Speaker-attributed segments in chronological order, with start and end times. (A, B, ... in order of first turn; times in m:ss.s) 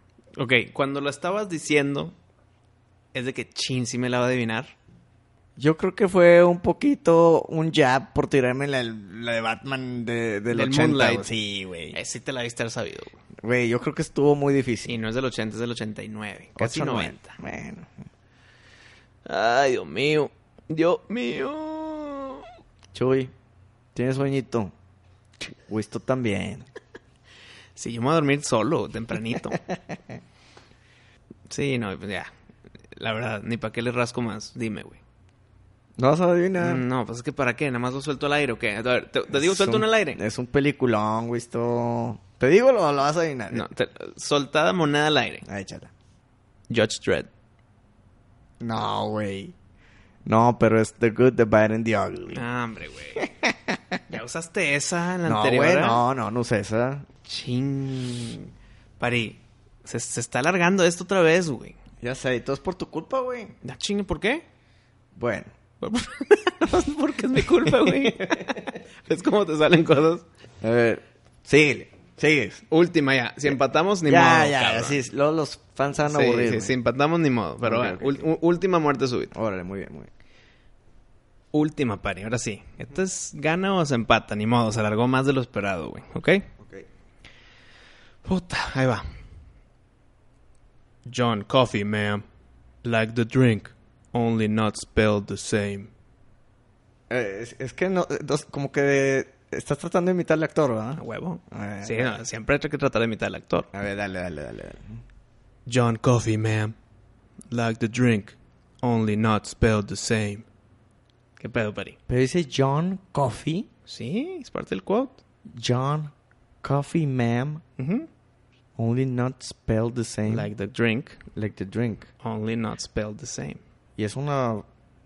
0:00.4-0:02.1 A
0:03.1-0:04.7 A
0:05.6-0:12.0 B
0:10.5-0:11.3 A
0:11.9-0:13.2 A
0:13.4-0:15.0 B
0:14.8-0:17.4 A
0:16.6-0:17.9 B
0:19.2-0:22.4 A
0:22.9-0:23.3 B
0:23.9-0:24.7 B
0:25.7-0:26.7 B
0:27.8-0:29.6 A
0:31.5-0:32.3 A
0:33.0-0:35.0 A
0:36.0-0:36.8 B
0:36.6-0:40.2 A
0:39.3-0:43.7 B
0:43.5-0:45.4 A
0:45.4-0:45.9 B
0:46.7-0:47.3 A
0:48.6-0:49.5 B
0:50.2-0:52.4 B
0:52.3-0:53.3 A
0:53.2-0:54.0 B
0:54.1-0:56.0 A
0:55.2-0:57.1 B
0:57.2-1:01.8 A
1:02.0-1:03.5 B
1:03.6-1:04.4 A
1:05.1-1:05.5 B
1:05.8-1:10.2 A
1:07.6-1:08.5 B
1:10.6-1:12.6 B
1:12.7-1:15.0 A
1:14.0-1:16.7 B
1:16.1-1:19.3 A
1:17.6-1:18.2 B
1:19.3-1:20.1 B
1:21.5-1:26.5 A
1:26.6-1:26.8 B
1:28.2-1:29.0 A
1:31.0-1:32.2 A
1:32.8-1:35.9 A
1:37.1-1:42.2 B
1:41.0-1:43.7 A
1:43.7-1:45.0 B
1:45.6-1:46.7 A
1:47.5-1:50.4 A
1:51.4-1:52.0 A
1:52.1-1:53.7 B
1:53.9-1:55.2 A
1:55.5-1:57.6 B
1:57.8-1:58.1 A
1:58.8-2:00.5 B
2:00.3-2:01.2 A
2:01.3-2:02.1 B
2:02.2-2:03.6 A
2:04.0-2:04.6 B